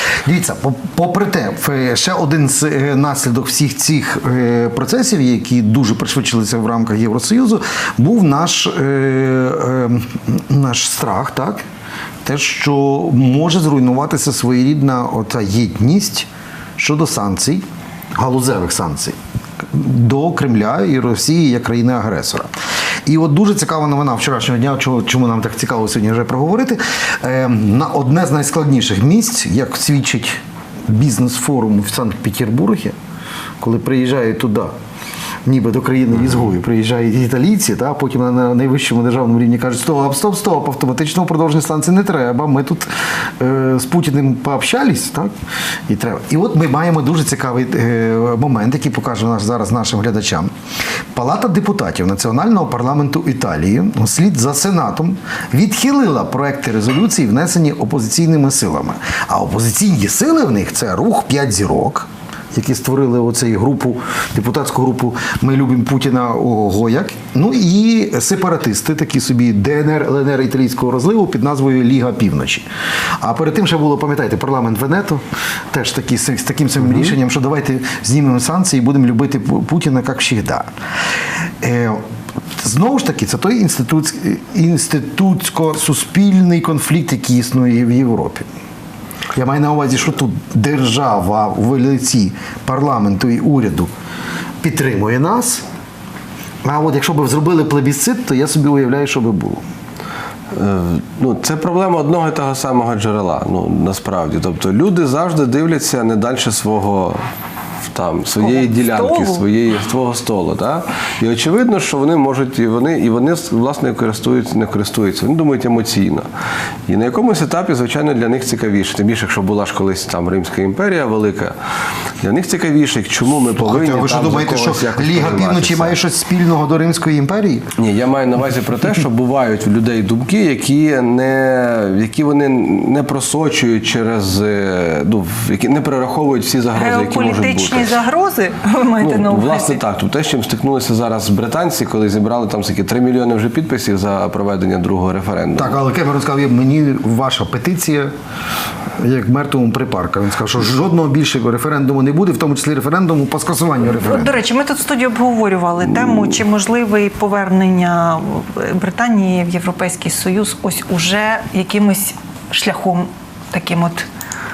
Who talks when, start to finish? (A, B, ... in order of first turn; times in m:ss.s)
0:00.2-0:11.6 A
0:12.2-0:17.6 A
0:18.2-0:19.2 A
0:19.7-0:22.5 A
0:23.0-0:32.9 A
0:33.6-0:34.7 A
0:35.4-0:45.3 A
0:45.9-0:50.5 A
0:51.1-1:12.6 A
1:13.2-1:20.7 A
1:21.6-1:22.0 A
1:22.6-1:28.4 A
1:29.3-1:33.9 A
1:34.6-1:35.6 A
1:36.6-1:39.6 A
1:40.5-1:47.2 B
1:47.9-1:56.3 B
1:48.4-1:49.4 C
1:56.9-2:01.5 B
2:02.2-2:05.9 B
2:03.6-2:07.7 A
2:07.8-2:18.0 B
2:16.8-2:19.8 C
2:19.0-2:25.8 B
2:25.6-2:28.1 A
2:29.0-2:34.4 A
2:34.0-2:44.1 C